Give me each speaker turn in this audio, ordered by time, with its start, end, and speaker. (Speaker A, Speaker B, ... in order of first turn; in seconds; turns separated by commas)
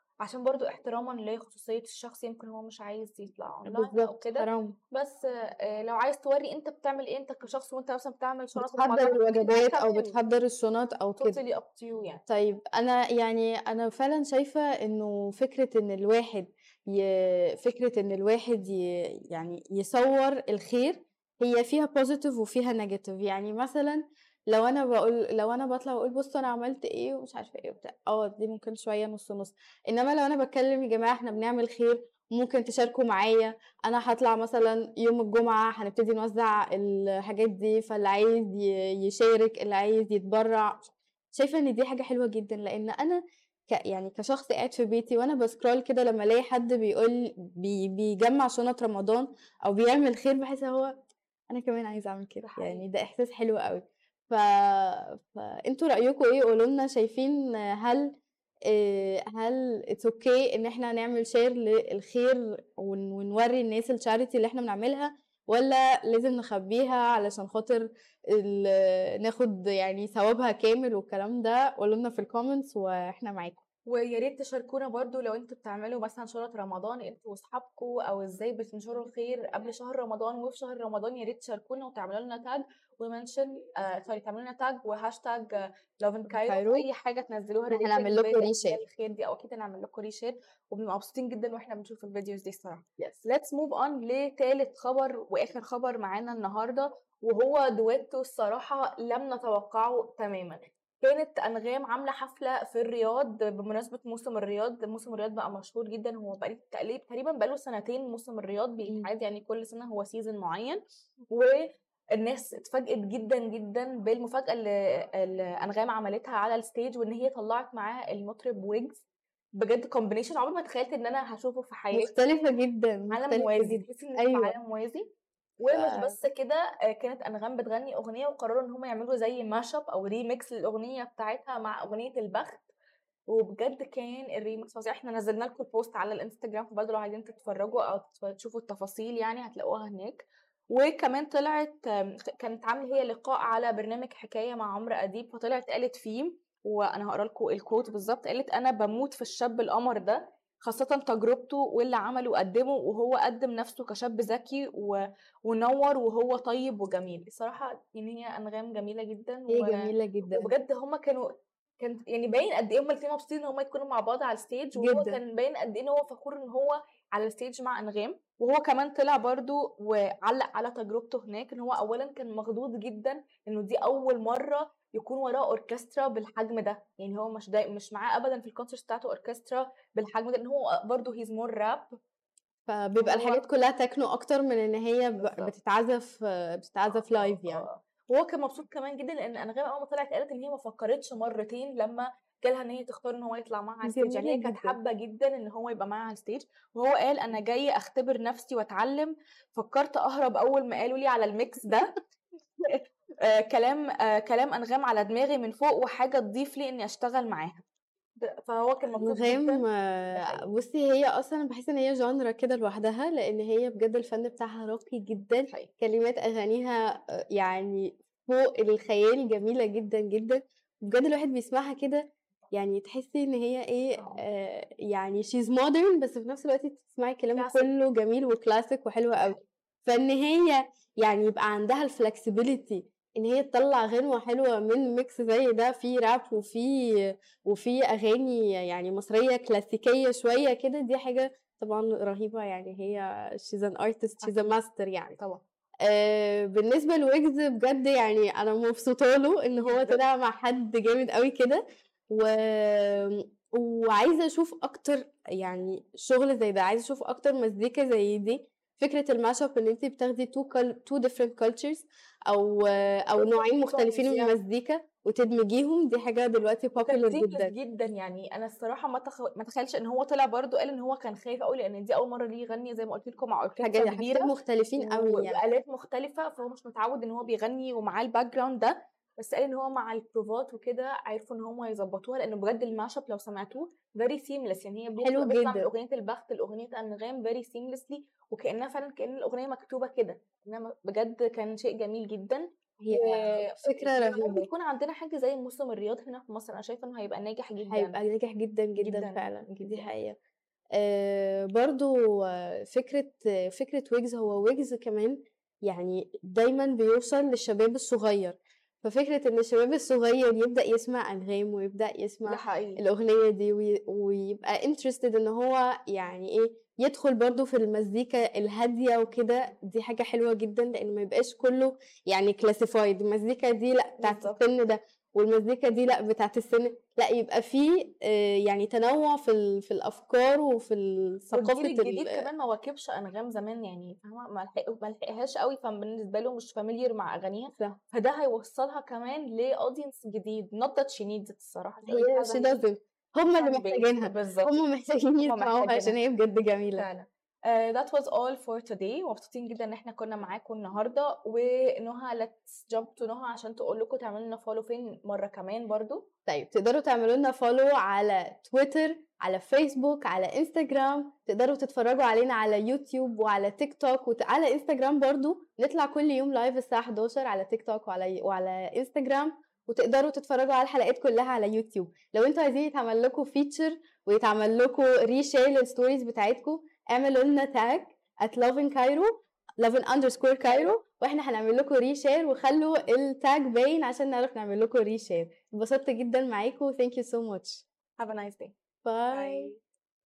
Speaker A: 0.2-10.2, Speaker B: 3.7-4.8, Speaker B: 8.6-11.4, Speaker A: 11.2-12.2, Speaker B: 12.3-73.6, Speaker A: 52.4-52.9, Speaker A: 73.9-119.0, Speaker B: 86.3-86.8, Speaker B: 87.7-88.8, Speaker A: 119.6-122.1, Speaker B: 121.9-124.5, Speaker A: 123.1-125.1, Speaker A: 125.6-132.7, Speaker B: 125.7-126.2, Speaker A: 133.3-181.9, Speaker B: 159.5-160.5, Speaker B: 164.8-165.2, Speaker B: 182.7-187.7, Speaker A: 183.0-183.5, Speaker A: 185.2-185.5, Speaker A: 187.1-201.9, Speaker B: 193.8-194.8, Speaker A: 202.6-207.6, Speaker A: 208.2-210.5, Speaker B: 209.0-245.2, Speaker A: 224.0-224.2, Speaker A: 227.3-227.7, Speaker A: 229.2-229.4, Speaker A: 244.2-244.5, Speaker B: 245.8-267.5, Speaker A: 249.6-250.0, Speaker A: 263.2-264.4, Speaker A: 266.8-298.0, Speaker B: 273.6-275.4, Speaker B: 285.0-285.7, Speaker B: 292.8-294.5, Speaker B: 297.7-300.2, Speaker A: 298.8-299.9, Speaker B: 300.7-332.3, Speaker A: 312.2-312.8, Speaker A: 324.0-324.4, Speaker A: 331.3-342.6, Speaker B: 341.9-346.9, Speaker A: 343.3-344.6, Speaker A: 345.2-346.0, Speaker A: 346.8-356.1, Speaker B: 356.3-387.6, Speaker A: 380.5-380.7, Speaker A: 388.0-388.6, Speaker B: 388.8-389.5, Speaker A: 389.1-389.6